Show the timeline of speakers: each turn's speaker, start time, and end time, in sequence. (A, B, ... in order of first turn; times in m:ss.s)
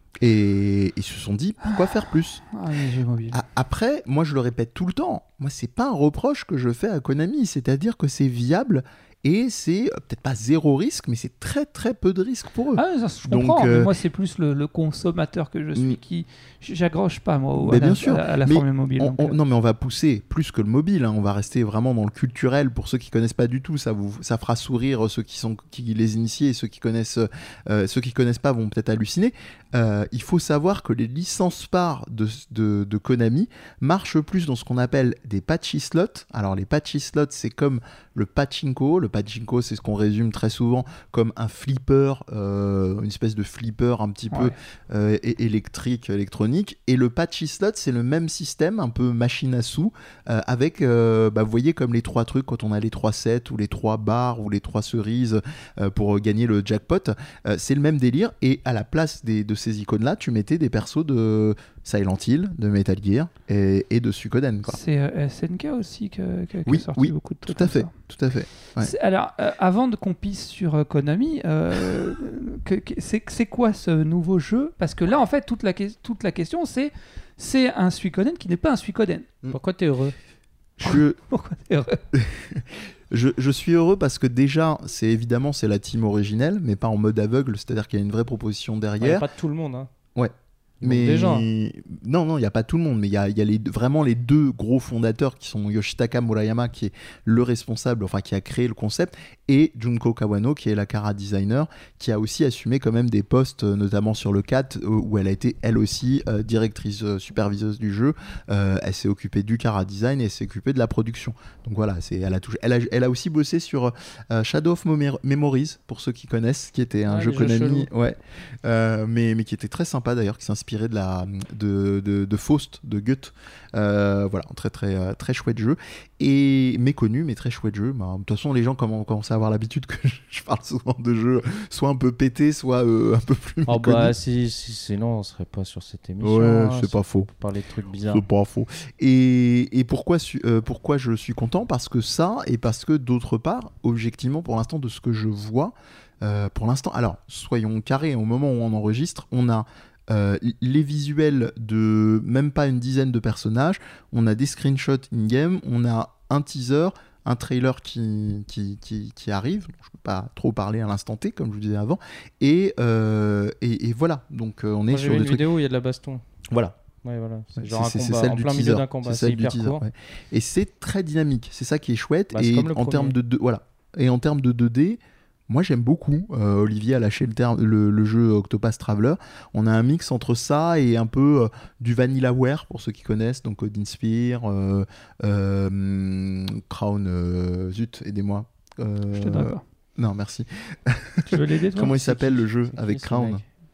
0:00.2-0:02.4 A
0:01.6-0:03.4 B
0:03.3-0:13.9 A
0:12.7-0:19.3 B
0:17.6-1:04.8 A
1:04.6-1:07.9 B
1:06.6-1:08.9 A
1:08.8-1:19.3 B
1:19.5-1:20.2 C
1:20.8-1:21.2 A
1:20.8-1:22.0 B
1:22.1-1:29.2 A
1:29.0-1:29.9 C
1:30.2-2:14.1 A
1:30.8-1:31.5 C
1:57.1-1:57.9 C
2:13.7-2:18.2 C
2:16.2-2:17.3 A
2:18.0-2:45.4 A
2:44.9-2:46.2 C
2:46.5-2:46.7 A
2:47.0-2:49.8 C
2:47.6-3:13.4 A
2:52.3-2:53.2 C
3:09.2-3:09.6 B
3:11.3-3:12.4 B
3:12.7-3:13.4 C